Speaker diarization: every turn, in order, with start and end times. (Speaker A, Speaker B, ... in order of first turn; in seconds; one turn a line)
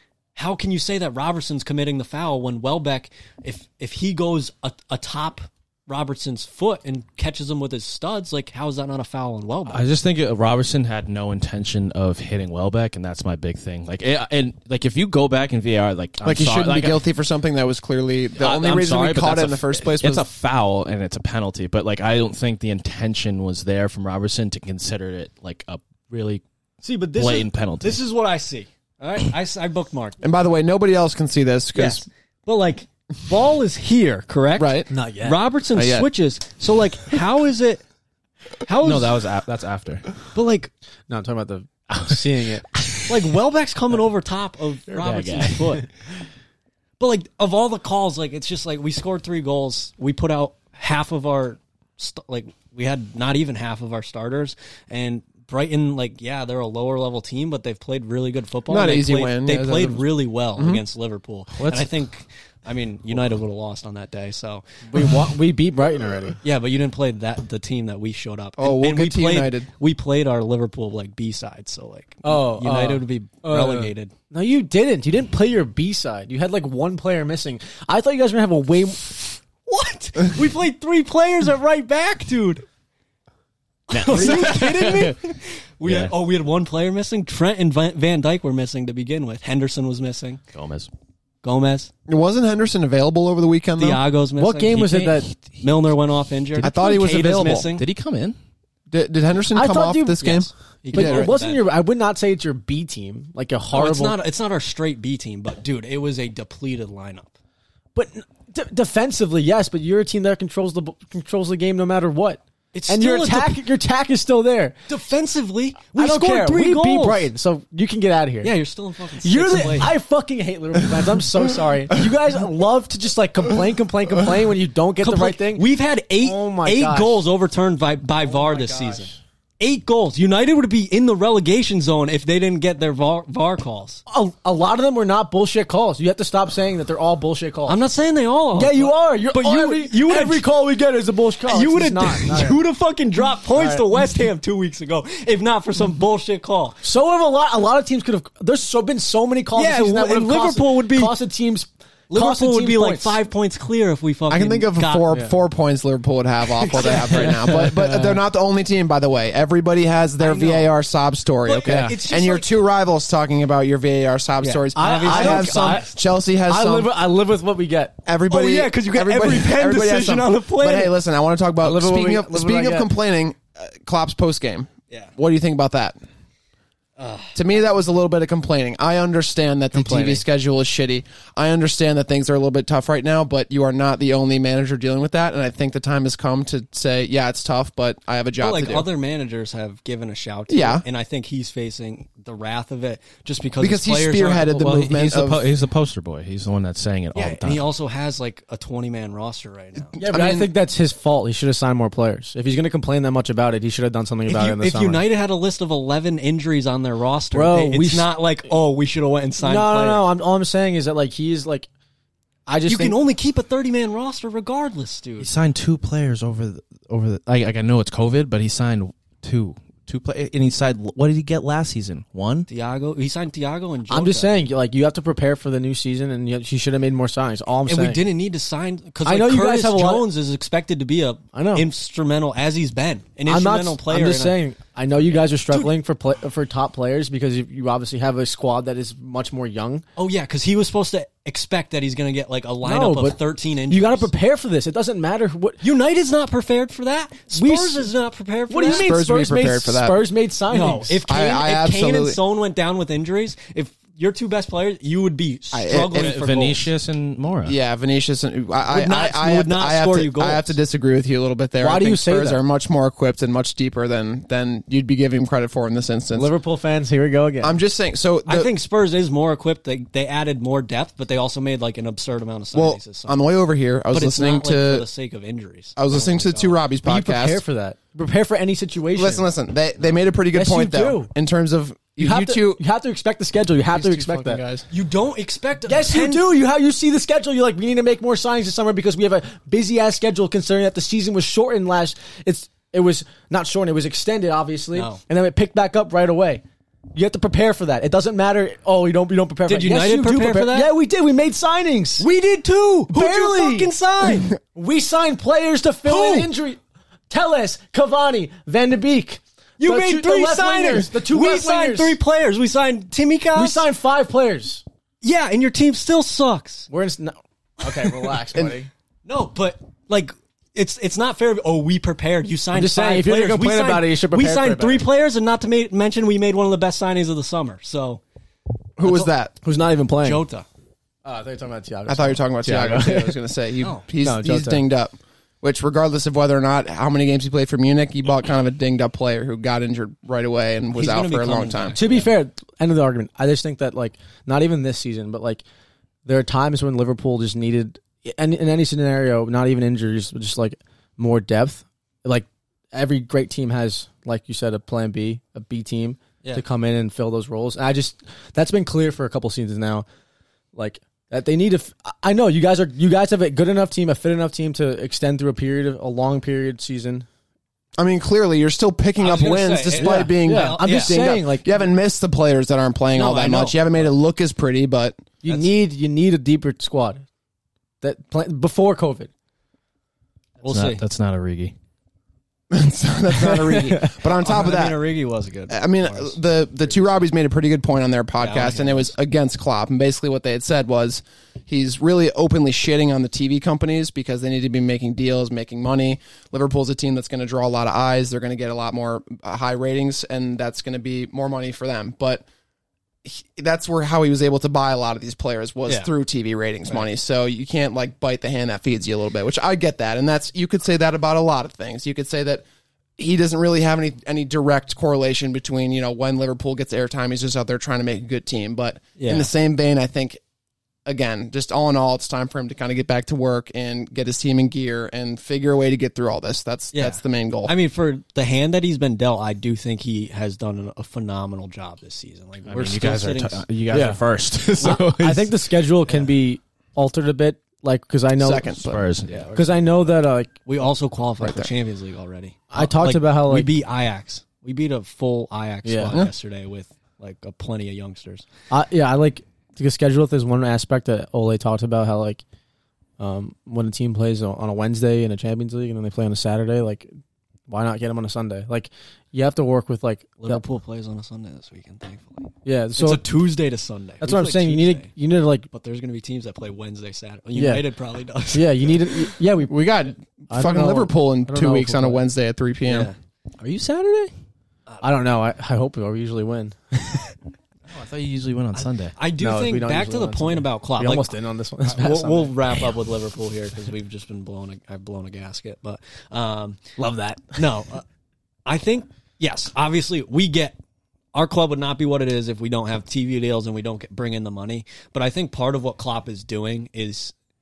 Speaker A: 0.3-9.8
Speaker B: 9.7-17.0
Speaker C: 16.2-20.2
Speaker B: 18.4-26.4
Speaker A: 26.8-30.2
Speaker B: 27.1-28.0
Speaker C: 30.2-32.0
Speaker A: 31.7-37.8
Speaker C: 34.6-34.9
Speaker D: 34.9-35.4
Speaker C: 35.7-36.1
Speaker A: 38.6-39.2
Speaker B: 38.8-40.1
Speaker A: 40.3-40.7
Speaker D: 41.1-42.6
Speaker B: 41.9-43.2
Speaker A: 43.1-45.9
Speaker B: 44.9-45.8
Speaker A: 47.0-64.6
Speaker C: 58.7-60.8
Speaker B: 61.6-61.9
Speaker D: 64.9-66.4
Speaker A: 66.4-74.1
Speaker C: 68.6-69.7
Speaker D: 72.2-79.2
Speaker A: 79.6-82.6
Speaker A: 83.9-90.4
Speaker B: 83.9-85.2
Speaker B: 85.8-86.1
Speaker B: 90.5-90.9
Speaker A: 91.4-91.9
Speaker C: 92.1-94.0
Speaker A: 93.8-97.8
Speaker D: 94.4-95.3
Speaker C: 96.6-97.7
Speaker B: 97.8-98.3
Speaker C: 98.9-101.3
Speaker D: 99.5-104.2
Speaker A: 100.8-101.6
Speaker A: 103.7-107.3
Speaker D: 107.9-114.8
Speaker A: 112.7-113.6
Speaker A: 114.9-117.3
Speaker D: 115.9-118.5
Speaker A: 118.4-119.9
Speaker D: 119.2-125.6
Speaker A: 125.0-134.0
Speaker D: 126.2-127.2
Speaker D: 128.3-129.1
Speaker D: 134.1-137.8
Speaker A: 137.7-140.5
Speaker D: 138.6-142.6
Speaker A: 141.5-146.8
Speaker D: 143.6-143.8
Speaker D: 146.8-153.2
Speaker A: 149.5-151.1
Speaker A: 152.1-155.1
Speaker C: 154.3-166.9
Speaker D: 155.1-155.3
Speaker A: 156.6-157.5
Speaker D: 157.1-158.2
Speaker A: 160.2-160.7
Speaker A: 161.4-162.6
Speaker D: 161.7-161.9
Speaker A: 164.4-165.9
Speaker D: 164.7-167.9
Speaker C: 168.0-175.9
Speaker A: 168.3-170.9
Speaker D: 171.6-172.9
Speaker A: 177.0-177.4
Speaker C: 177.3-188.9
Speaker D: 179.7-180.2
Speaker A: 188.4-194.5
Speaker C: 190.5-190.8
Speaker C: 193.6-195.4
Speaker B: 194.5-197.7
Speaker A: 197.1-200.0
Speaker C: 199.9-200.5
Speaker D: 200.0-205.0
Speaker A: 204.3-210.1
Speaker D: 207.3-208.1
Speaker D: 209.4-211.7
Speaker D: 212.5-213.0
Speaker A: 212.7-215.3
Speaker B: 215.2-222.5
Speaker A: 222.5-224.4
Speaker D: 223.9-228.0
Speaker A: 227.7-234.4
Speaker D: 229.0-230.1
Speaker D: 231.3-231.7
Speaker D: 233.3-239.8
Speaker A: 240.0-244.1
Speaker D: 242.6-245.6
Speaker A: 245.6-248.9
Speaker D: 247.3-247.9
Speaker D: 248.5-251.0
Speaker C: 248.7-250.0
Speaker A: 250.5-256.7
Speaker C: 251.1-252.2
Speaker C: 255.5-256.2
Speaker B: 255.9-257.6
Speaker C: 257.4-266.3
Speaker A: 258.7-260.5
Speaker D: 261.6-262.4
Speaker D: 266.1-267.6
Speaker C: 267.4-268.5
Speaker A: 268.3-273.2
Speaker C: 272.5-274.8
Speaker A: 273.9-276.6
Speaker C: 275.8-277.4
Speaker D: 276.8-279.3
Speaker C: 278.9-282.6
Speaker D: 280.3-281.1
Speaker D: 282.0-284.4
Speaker C: 283.7-284.6
Speaker A: 284.7-286.3
Speaker D: 285.7-296.4
Speaker A: 294.7-295.0
Speaker D: 296.9-302.1
Speaker A: 299.5-300.7
Speaker A: 302.0-304.3
Speaker D: 302.9-303.7
Speaker D: 304.5-312.0
Speaker A: 305.9-306.3
Speaker A: 309.6-313.6
Speaker D: 313.3-314.6
Speaker A: 315.0-316.7
Speaker D: 316.7-318.7
Speaker A: 319.0-328.0
Speaker D: 322.5-324.8
Speaker C: 328.8-329.3
Speaker D: 329.4-330.2
Speaker A: 330.0-330.4
Speaker D: 331.0-333.2
Speaker C: 331.9-341.8
Speaker D: 334.0-334.6
Speaker A: 340.7-342.1
Speaker D: 341.8-345.4
Speaker D: 346.0-359.9
Speaker D: 360.5-367.1
Speaker C: 367.8-375.0
Speaker A: 369.0-370.9
Speaker D: 369.8-371.5
Speaker A: 372.9-373.9
Speaker D: 375.2-377.0
Speaker D: 377.8-379.1
Speaker A: 380.4-380.8
Speaker B: 380.5-381.5
Speaker C: 382.5-384.8
Speaker D: 383.1-384.0
Speaker A: 384.1-387.0
Speaker C: 385.5-402.2
Speaker A: 388.2-388.9
Speaker C: 403.0-412.4
Speaker C: 413.0-420.2
Speaker A: 418.9-419.3
Speaker C: 420.9-427.5
Speaker A: 426.7-433.4
Speaker B: 432.4-435.3
Speaker D: 433.7-434.0
Speaker D: 434.6-438.6
Speaker A: 434.6-434.9
Speaker C: 438.2-438.8
Speaker B: 438.6-439.4
Speaker A: 439.1-439.5
Speaker D: 439.3-440.3
Speaker A: 440.4-448.2
Speaker C: 441.2-441.5
Speaker D: 442.5-443.5
Speaker D: 445.6-446.0
Speaker D: 448.5-452.2
Speaker D: 453.0-456.9
Speaker D: 457.5-460.4
Speaker A: 460.2-464.9
Speaker D: 462.4-463.0
Speaker D: 464.0-465.5
Speaker A: 465.5-469.1
Speaker D: 467.3-467.6
Speaker D: 468.3-469.6
Speaker C: 469.5-472.9
Speaker D: 470.3-472.0
Speaker A: 472.6-472.9
Speaker B: 473.4-474.1
Speaker D: 474.8-477.1
Speaker B: 477.7-478.9
Speaker A: 478.5-486.8
Speaker D: 479.2-482.4
Speaker D: 486.8-487.4
Speaker A: 487.3-487.8
Speaker A: 488.4-490.6
Speaker A: 491.1-497.1